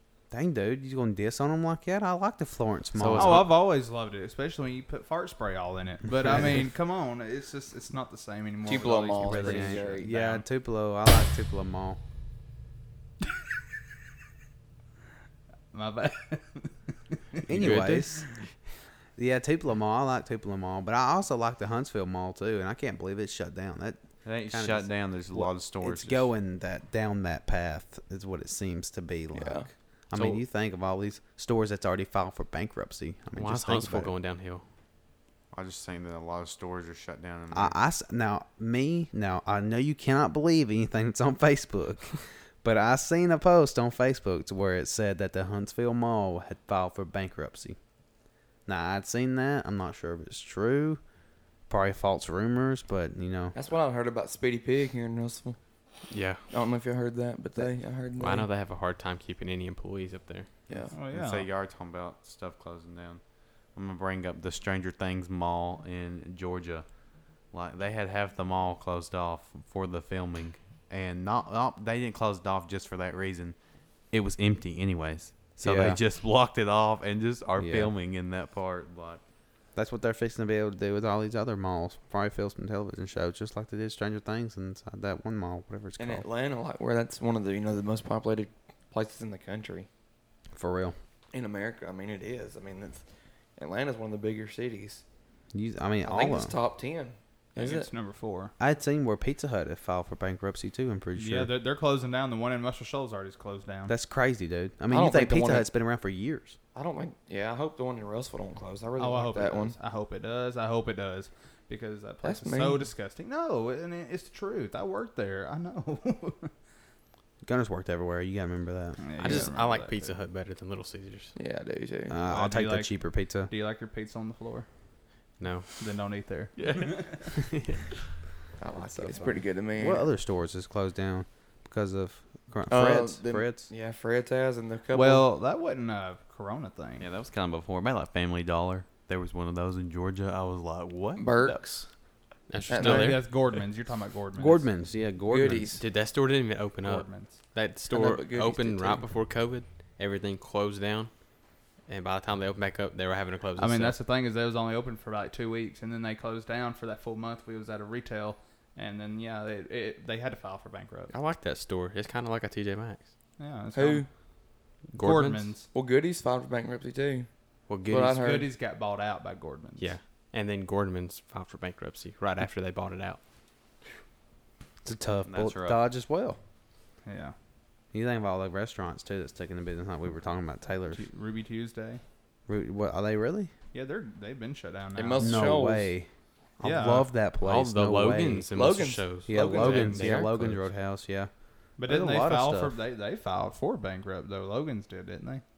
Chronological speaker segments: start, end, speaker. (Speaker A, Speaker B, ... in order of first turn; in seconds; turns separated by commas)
Speaker A: 0.3-3.5, Speaker B: 3.0-3.5, Speaker C: 3.2-10.4, Speaker D: 8.6-10.2, Speaker A: 9.2-12.0, Speaker C: 15.7-18.0, Speaker A: 17.5-18.2, Speaker B: 17.5-18.2, Speaker A: 19.2-34.1, Speaker E: 24.2-26.3, Speaker D: 29.3-29.7, Speaker B: 30.1-30.4, Speaker B: 33.4-34.6, Speaker E: 35.5-37.8, Speaker A: 37.5-47.8, Speaker A: 48.7-51.0, Speaker A: 51.7-53.6, Speaker D: 53.5-55.6, Speaker B: 56.1-56.5, Speaker D: 56.5-58.5, Speaker B: 58.2-60.5, Speaker D: 60.7-60.9, Speaker C: 60.9-61.5, Speaker E: 61.1-63.2, Speaker E: 63.7-66.9, Speaker E: 67.5-73.6, Speaker E: 74.1-79.2, Speaker A: 75.6-76.0, Speaker A: 77.6-77.9, Speaker A: 79.8-86.2, Speaker D: 86.0-89.9, Speaker A: 90.5-91.0, Speaker D: 91.3-93.0, Speaker D: 93.6-95.0, Speaker A: 95.5-96.5, Speaker D: 96.0-97.9, Speaker C: 97.6-98.5, Speaker A: 98.6-101.5, Speaker C: 101.2-103.9, Speaker A: 103.9-106.6, Speaker D: 104.9-105.7, Speaker D: 106.8-109.8, Speaker C: 109.0-116.5, Speaker D: 112.2-112.9, Speaker A: 117.5-119.5, Speaker C: 119.0-120.2, Speaker B: 119.2-121.3, Speaker D: 121.3-122.2, Speaker A: 122.1-123.5, Speaker C: 122.3-122.9, Speaker C: 123.5-124.7, Speaker B: 125.4-125.8, Speaker C: 125.8-127.3, Speaker B: 127.5-127.8, Speaker D: 128.6-130.1, Speaker A: 128.8-133.7, Speaker D: 132.7-135.3, Speaker C: 134.9-137.1, Speaker E: 137.0-141.9, Speaker D: 141.2-141.6, Speaker B: 142.5-143.4, Speaker D: 142.7-143.2, Speaker C: 142.7-144.7, Speaker A: 144.3-145.8, Speaker D: 145.3-145.8, Speaker B: 145.8-151.1, Speaker C: 146.8-147.4, Speaker D: 147.9-149.0, Speaker B: 151.9-154.0, Speaker C: 153.6-161.1, Speaker B: 161.1-163.1, Speaker C: 163.4-164.1, Speaker D: 163.7-164.1, Speaker B: 164.9-165.5, Speaker C: 164.9-165.7, Speaker D: 165.7-167.3, Speaker B: 167.7-168.2, Speaker D: 167.9-168.5, Speaker C: 168.1-169.9, Speaker B: 169.8-173.2, Speaker A: 174.8-176.4, Speaker E: 175.3-175.8, Speaker C: 177.1-177.3, Speaker A: 177.9-181.1, Speaker C: 180.9-182.0, Speaker A: 182.5-183.5, Speaker C: 183.7-185.6, Speaker D: 184.9-185.9, Speaker A: 185.2-186.1, Speaker A: 186.6-188.5, Speaker C: 186.6-187.1, Speaker B: 187.4-190.7, Speaker D: 188.5-190.2, Speaker A: 189.3-191.3, Speaker C: 191.8-195.4, Speaker A: 191.8-192.8